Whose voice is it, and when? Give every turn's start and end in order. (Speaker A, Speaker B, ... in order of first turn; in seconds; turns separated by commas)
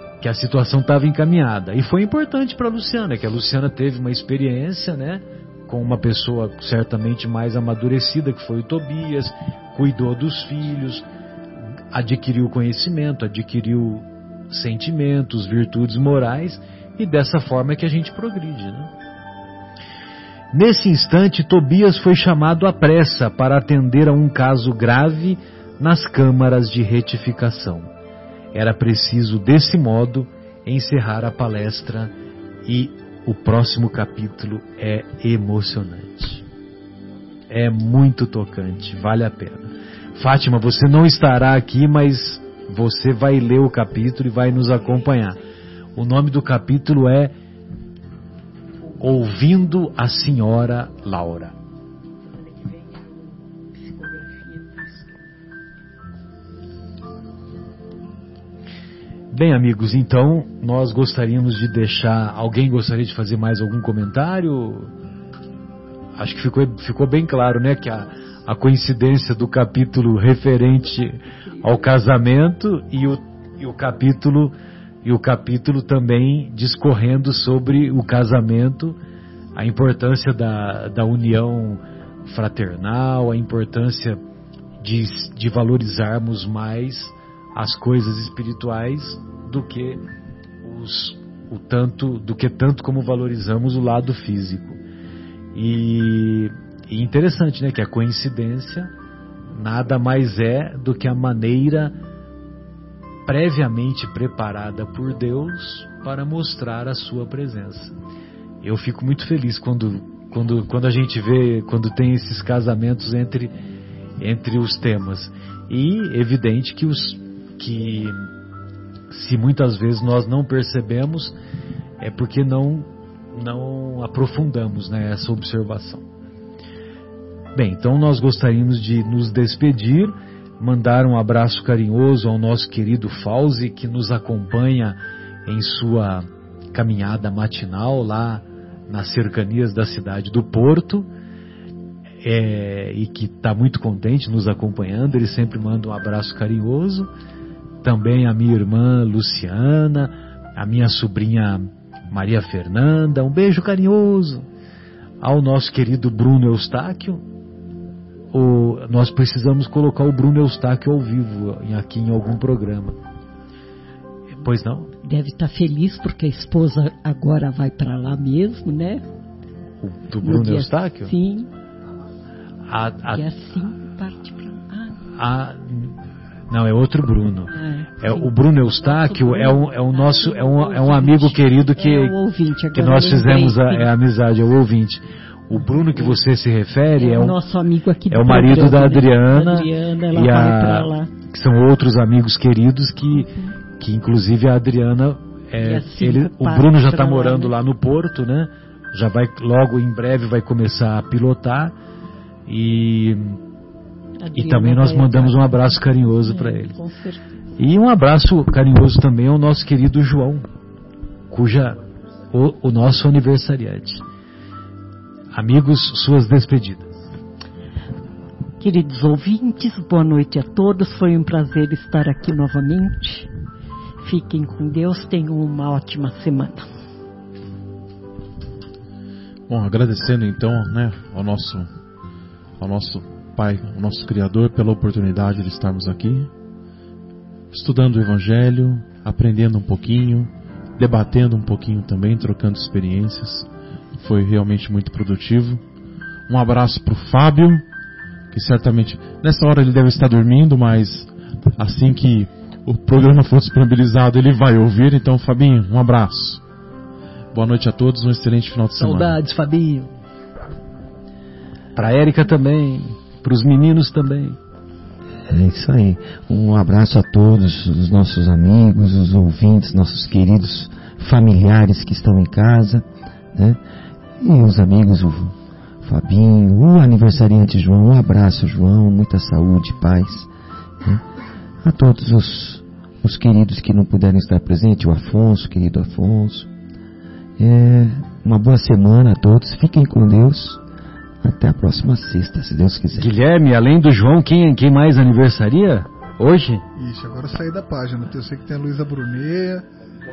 Speaker A: 0.2-11.0, Speaker A: 11.9-18.9, Speaker A: 20.5-27.9, Speaker A: 28.5-32.1, Speaker A: 32.6-36.4, Speaker A: 37.5-45.4, Speaker A: 46.0-47.4, Speaker A: 49.0-51.5, Speaker B: 52.2-55.1, Speaker A: 59.3-64.9, Speaker A: 66.2-79.0, Speaker A: 79.5-84.2, Speaker A: 84.8-90.0, Speaker A: 90.6-94.8, Speaker A: 95.5-98.9, Speaker A: 99.5-102.0, Speaker A: 103.2-107.9, Speaker A: 108.6-113.5, Speaker A: 114.2-118.3, Speaker A: 119.1-121.3, Speaker A: 122.0-126.0, Speaker A: 127.5-141.1, Speaker A: 142.2-147.1, Speaker A: 147.8-154.5, Speaker A: 155.2-157.2, Speaker A: 158.3-162.9, Speaker A: 164.4-164.9, Speaker B: 165.0-169.0, Speaker A: 169.8-171.1, Speaker B: 170.2-171.5, Speaker A: 172.7-173.2, Speaker B: 173.1-175.0, Speaker A: 175.2-175.9, Speaker A: 176.5-182.1, Speaker B: 177.5-178.3, Speaker B: 178.8-183.9, Speaker A: 182.7-187.4, Speaker B: 187.0-191.1, Speaker A: 188.1-201.8, Speaker B: 193.2-193.5, Speaker B: 195.6-197.5, Speaker A: 202.5-203.4, Speaker B: 204.2-207.3, Speaker A: 204.3-206.8, Speaker A: 207.6-210.4, Speaker A: 211.3-211.8, Speaker A: 212.3-214.0, Speaker A: 215.3-217.0, Speaker B: 218.6-223.3, Speaker B: 224.0-226.7, Speaker C: 229.5-231.7, Speaker C: 232.6-236.3, Speaker C: 237.5-245.6, Speaker C: 246.3-247.6, Speaker C: 248.3-256.4, Speaker C: 257.3-259.1, Speaker A: 258.8-259.9, Speaker A: 261.8-264.4, Speaker D: 265.3-273.6, Speaker D: 274.2-280.3, Speaker D: 281.6-286.5, Speaker D: 287.4-290.6, Speaker D: 291.2-293.1, Speaker A: 292.9-296.6, Speaker E: 296.8-299.6